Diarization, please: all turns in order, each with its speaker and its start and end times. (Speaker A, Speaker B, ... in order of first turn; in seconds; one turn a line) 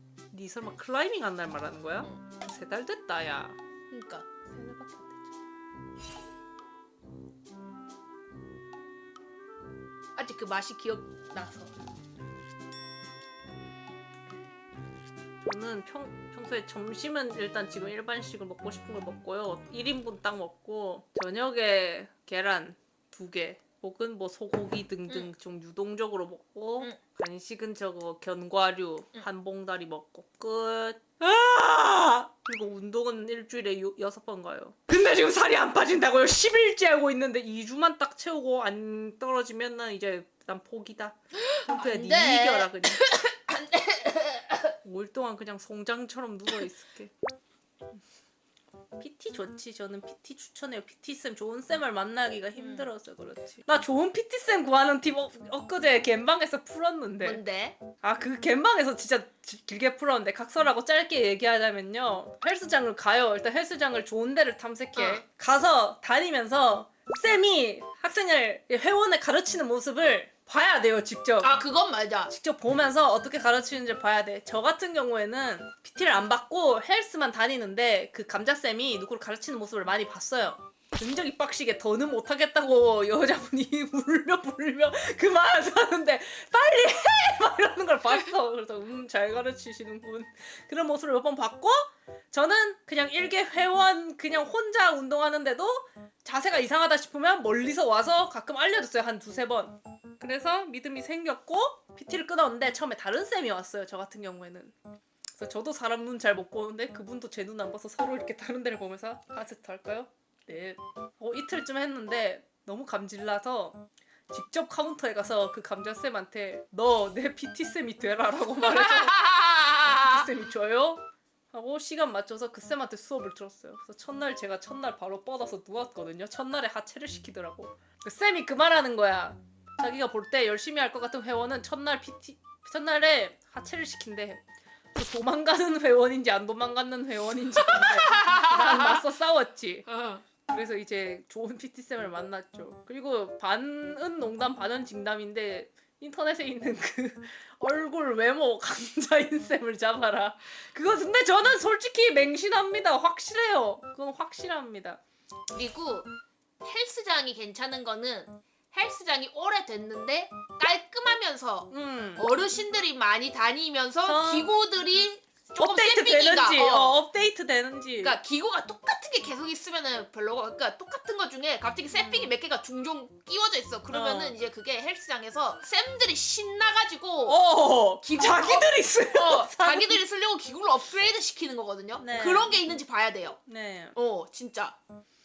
Speaker A: 0.3-3.6
Speaker B: 3.9-5.2
Speaker B: 10.2-11.8
Speaker A: 15.4-41.2
Speaker B: 41.4-44.8
Speaker A: 41.7-43.1
Speaker A: 44.8-47.1
Speaker A: 49.0-57.4
Speaker B: 52.6-52.9
Speaker B: 57.2-57.8
Speaker A: 58.0-71.6
Speaker B: 65.0-65.2
Speaker B: 71.4-72.3
Speaker A: 72.3-104.7
Speaker A: 105.3-119.3
Speaker B: 118.7-120.3
Speaker A: 119.8-134.4
Speaker A: 134.9-139.9
Speaker B: 137.7-139.0
Speaker B: 139.9-140.2
Speaker A: 140.5-155.0
Speaker B: 155.5-167.0
Speaker A: 161.7-162.2
Speaker A: 164.0-164.5
Speaker A: 165.6-168.2
Speaker B: 168.0-177.4
Speaker A: 171.9-172.3
Speaker A: 173.9-174.3
Speaker A: 177.2-180.0
Speaker B: 178.0-183.4
Speaker A: 182.0-182.6
Speaker A: 183.5-183.9
Speaker B: 183.9-184.8